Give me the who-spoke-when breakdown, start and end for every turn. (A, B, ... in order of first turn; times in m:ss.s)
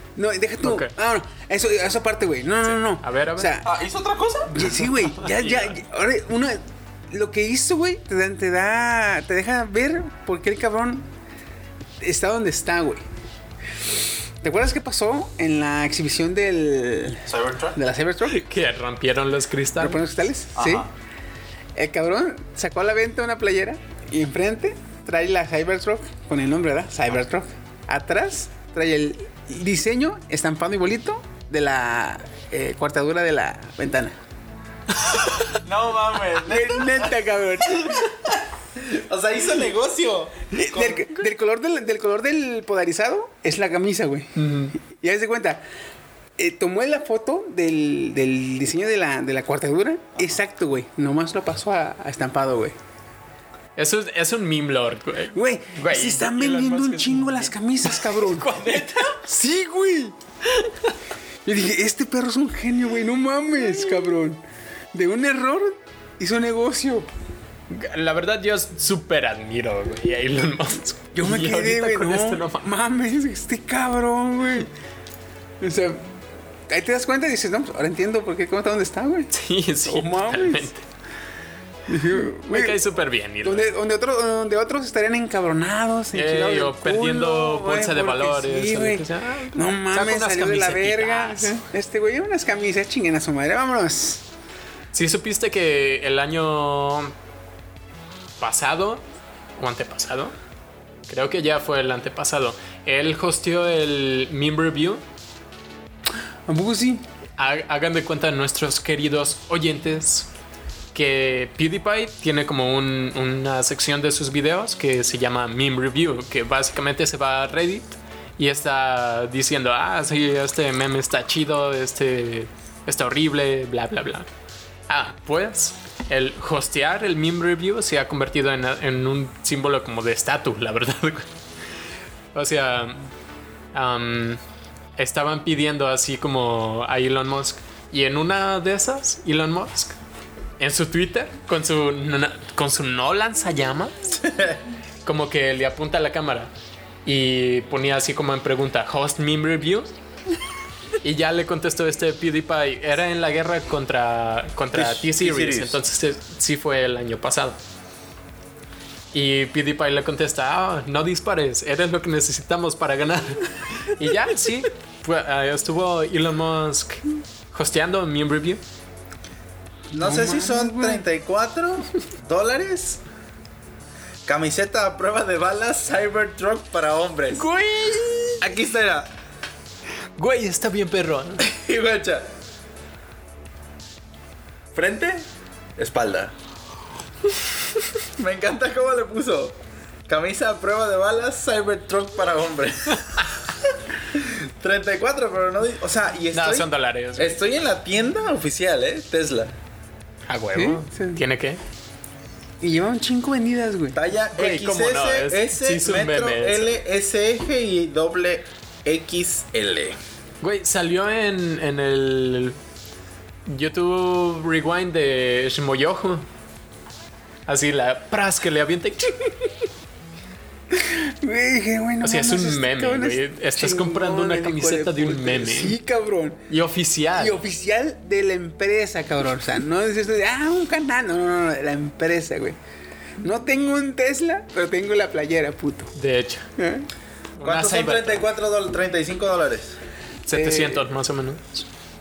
0:00.2-0:03.7 A
0:00.6-0:00.9 B
0:02.8-0:03.5 B
0:03.6-0:04.6 C
0:04.5-0:11.1 A
0:05.0-0:05.8 B
0:12.0-0:13.0 A
0:14.4-0:18.4 A
0:17.3-0:17.8 C
0:18.2-0:20.0 B
0:19.8-0:20.9 A
0:20.6-0:20.9 C
0:21.8-0:34.2 A
0:35.4-0:41.0 C
0:36.4-0:38.1 A
0:40.5-0:45.6 A
0:44.4-0:44.7 B
0:46.4-0:52.7 A
0:53.8-0:59.2 B
0:55.3-1:00.2 A
1:00.4-1:00.9 B
1:01.4-1:07.1 A
1:07.7-1:12.7 B
1:11.1-1:14.7 A
1:15.6-1:16.1 A
1:16.7-1:19.3 A
1:19.3-1:20.8 B
1:19.8-1:20.7 A
1:21.9-1:22.8 A
1:22.4-1:23.7 B
1:23.4-1:34.2 A
1:26.1-1:31.6 B
1:34.9-1:37.1 B
1:38.4-1:39.0 B
1:39.6-1:40.3 B
1:41.1-1:45.0 B
1:46.5-1:47.0 A
1:47.4-1:50.3 B
1:50.9-2:04.3 B
2:04.9-2:11.3 B
2:12.3-2:13.1 B
2:13.7-2:14.4 B
2:15.0-2:20.0 B
2:20.6-2:23.9 B
2:24.2-2:24.6 C
2:25.0-2:26.5 B
2:27.0-2:29.9 B
2:31.0-2:37.6 B
2:34.7-2:35.8 C
2:39.1-2:48.6 B
2:49.9-2:51.0 A
2:49.9-2:53.0 C
2:54.2-2:57.4 C
2:57.4-2:58.4 B
2:58.4-2:59.1 C
3:00.2-3:01.4 B
3:01.4-3:02.3 C
3:04.7-3:05.2 C
3:05.8-3:06.3 C
3:08.2-3:09.6 C
3:10.1-3:19.5 C
3:16.3-3:17.4 B
3:20.3-3:21.6 B
3:20.5-3:21.2 A
3:22.6-3:24.0 A
3:23.9-3:30.0 C
3:24.4-3:26.7 B
3:30.4-3:32.6 B
3:33.4-3:36.2 B
3:37.5-3:39.2 B
3:40.7-3:46.4 A
3:42.0-3:45.8 B
3:46.5-3:47.4 B
3:47.1-3:52.6 A
3:53.2-3:55.9 A
3:55.9-3:56.5 B
3:56.6-3:56.9 A
3:57.4-3:58.3 B
3:57.4-3:59.8 C
4:00.2-4:01.6 B
4:00.3-4:00.9 A